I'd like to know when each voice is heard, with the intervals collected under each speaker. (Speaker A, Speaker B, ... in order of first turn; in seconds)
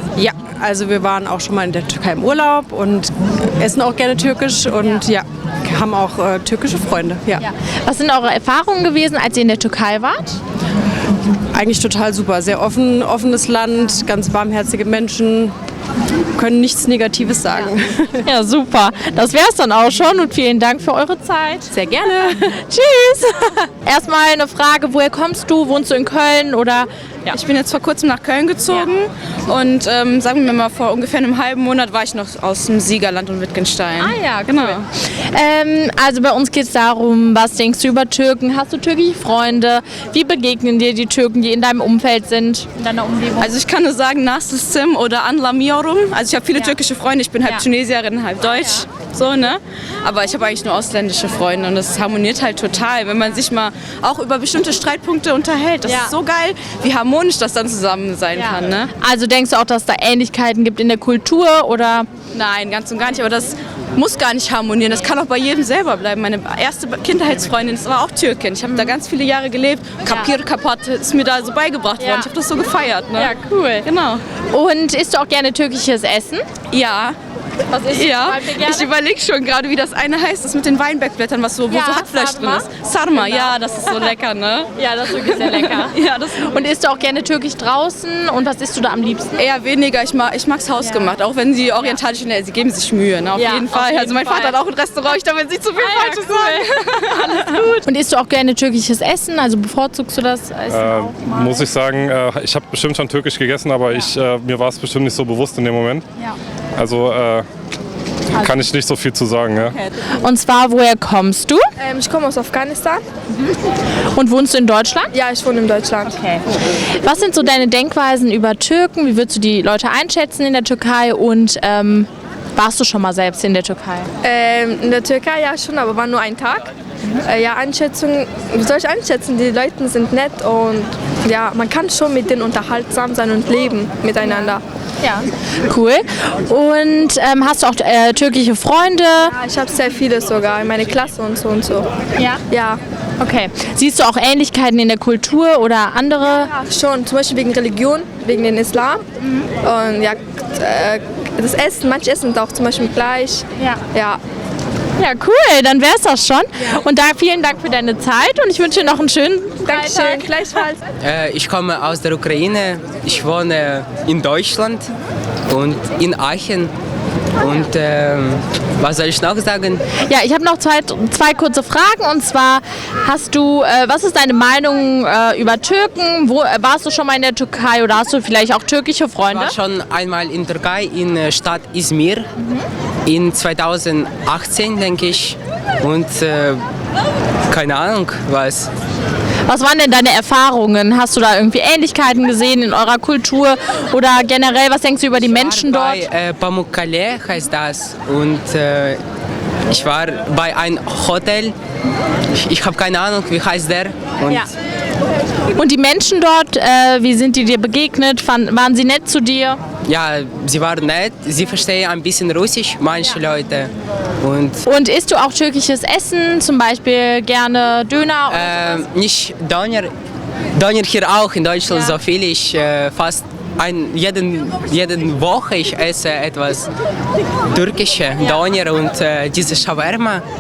Speaker A: 0.1-7.5, 11.5-15.6, 16.4-18.2, 21.7-22.4
Speaker B: 7.4-10.4, 18.2-21.7, 22.4-26.9, 34.0-34.8, 35.3-43.4, 58.4-62.1, 72.0-72.3, 73.2-73.9, 74.5-76.5, 77.7-78.9, 81.7-83.5, 84.8-89.4, 93.4-94.6, 95.8-101.7, 110.2-111.6, 114.1-115.1, 117.0-124.1, 135.0-139.3, 143.2-146.5, 149.2-149.5, 155.0-160.3, 170.1-179.6, 189.5-196.1, 205.6-209.6, 214.6-218.8
Speaker C: 27.3-34.8, 43.4-58.9, 62.3-74.2, 76.7-77.2, 77.9-86.5, 89.4-97.5
Speaker D: 100.7-106.0, 106.8-107.5, 108.4-109.8
Speaker E: 111.8-113.1, 115.1-116.2, 124.2-126.7, 127.2-134.6, 139.3-141.9, 142.5-142.8, 146.7-149.0, 149.6-154.2, 159.6-160.8
Speaker F: 161.0-164.9, 165.5-166.7, 167.4-169.8, 179.3-182.3, 183.1-186.6, 187.5-188.7, 195.3-199.0, 199.7-201.5, 202.4-204.5, 209.9-213.7, 214.2-214.6, 218.3-219.9, 220.6-226.7, 227.5-230.2